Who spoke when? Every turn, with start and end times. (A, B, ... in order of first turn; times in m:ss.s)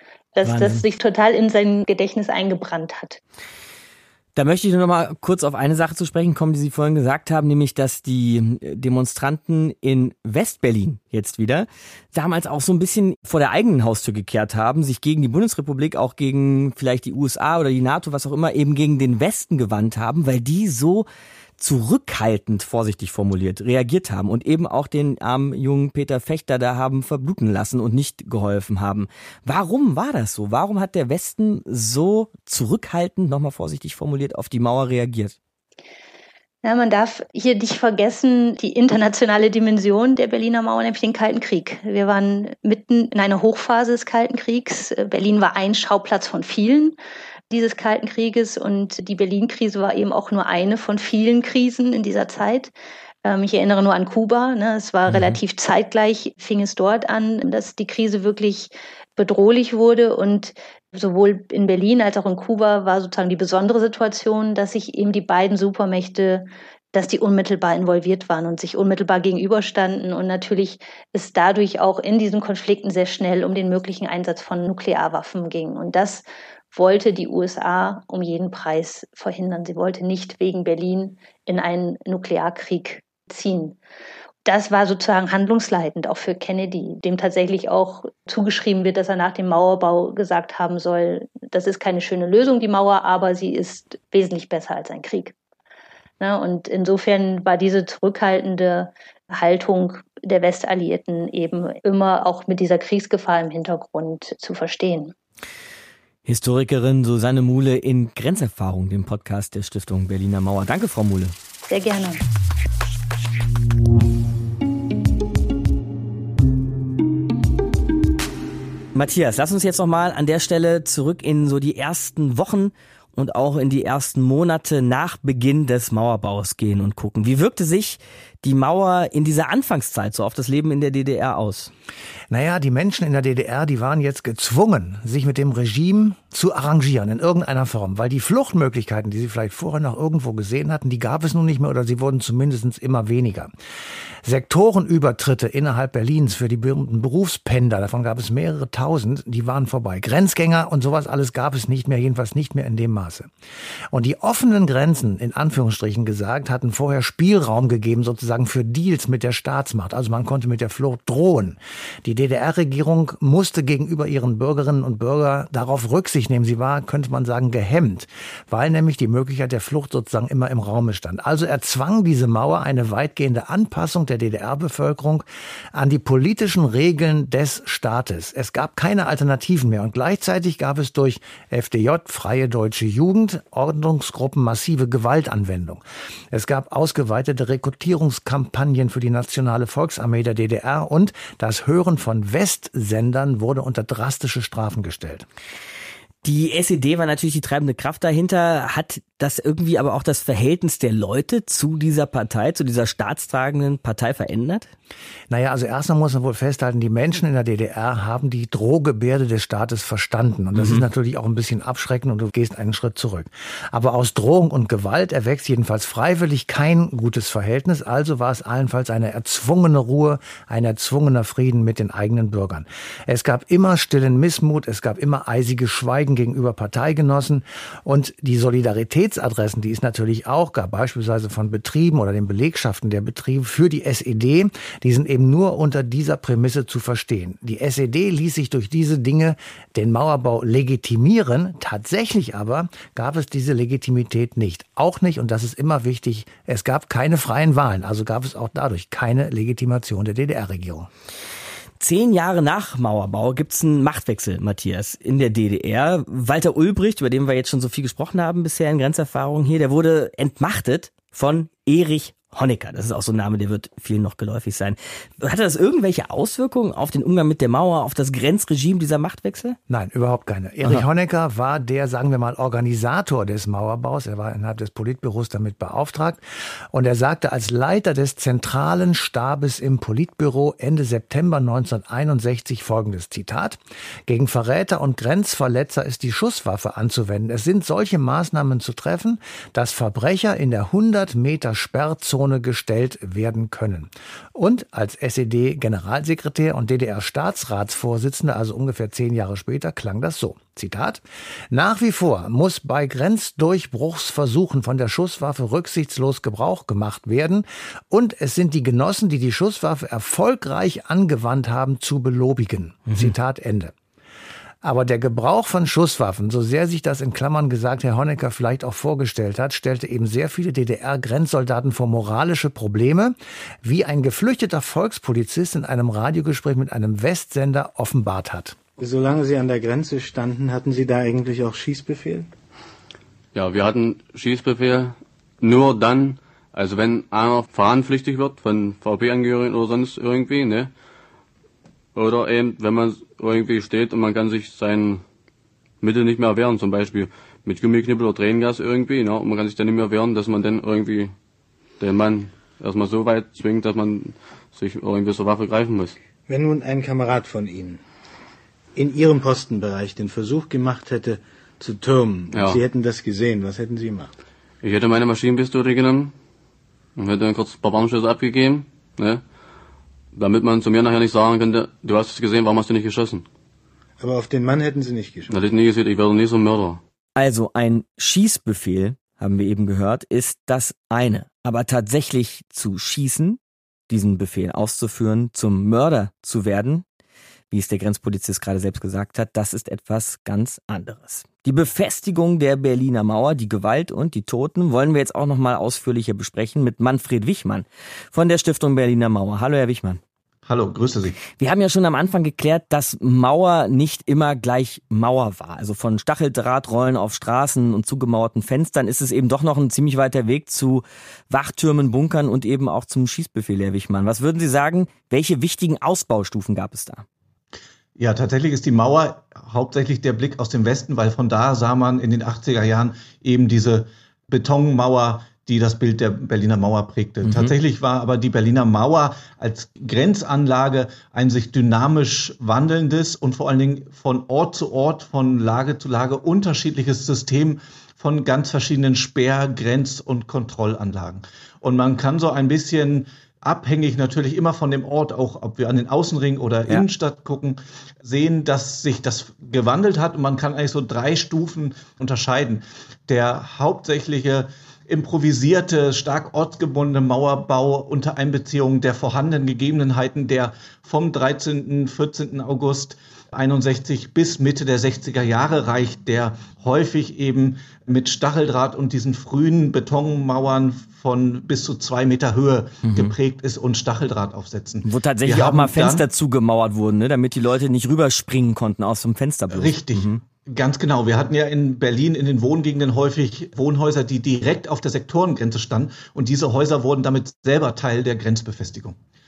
0:00.4-0:03.2 A
0:00.4-0:00.8 B
0:04.4-0:21.1 B
0:21.6-0:35.4 B
0:36.6-0:47.0 A
0:47.5-0:52.7 A
0:53.2-1:23.8 A
0:55.1-0:55.4 B
1:24.4-1:35.3 A
1:36.2-1:45.1 A
1:46.2-1:51.3 B
1:51.7-1:52.2 A
1:58.9-2:11.7 B
2:12.3-2:23.5 C
2:24.2-2:33.3 C
2:33.9-3:15.3 C
3:16.2-3:24.7 B
3:25.3-4:10.9 C
3:30.5-3:30.8 B
4:11.8-4:29.6 B
4:29.7-5:13.7 C
5:12.9-5:13.2 B
5:14.6-5:28.6 C
5:28.8-5:32.3 D
5:33.3-5:40.7 E
5:42.0-5:45.0 E
5:45.8-5:51.1 E
5:51.8-5:56.0 E
5:56.3-5:57.8 D
5:58.8-6:04.1 D
6:02.3-6:02.6 E
6:04.6-6:06.1 E
6:07.0-6:09.2 E
6:10.1-6:13.3 E
6:14.0-6:15.3 D
6:15.3-6:16.8 E
6:17.2-6:26.8 B
6:27.5-6:40.0 B
6:40.5-6:41.2 F
6:41.3-6:57.0 B
6:58.0-7:56.0 F
7:07.2-7:07.5 B
7:52.8-7:53.1 B
7:54.8-8:00.2 B
7:59.5-8:09.0 F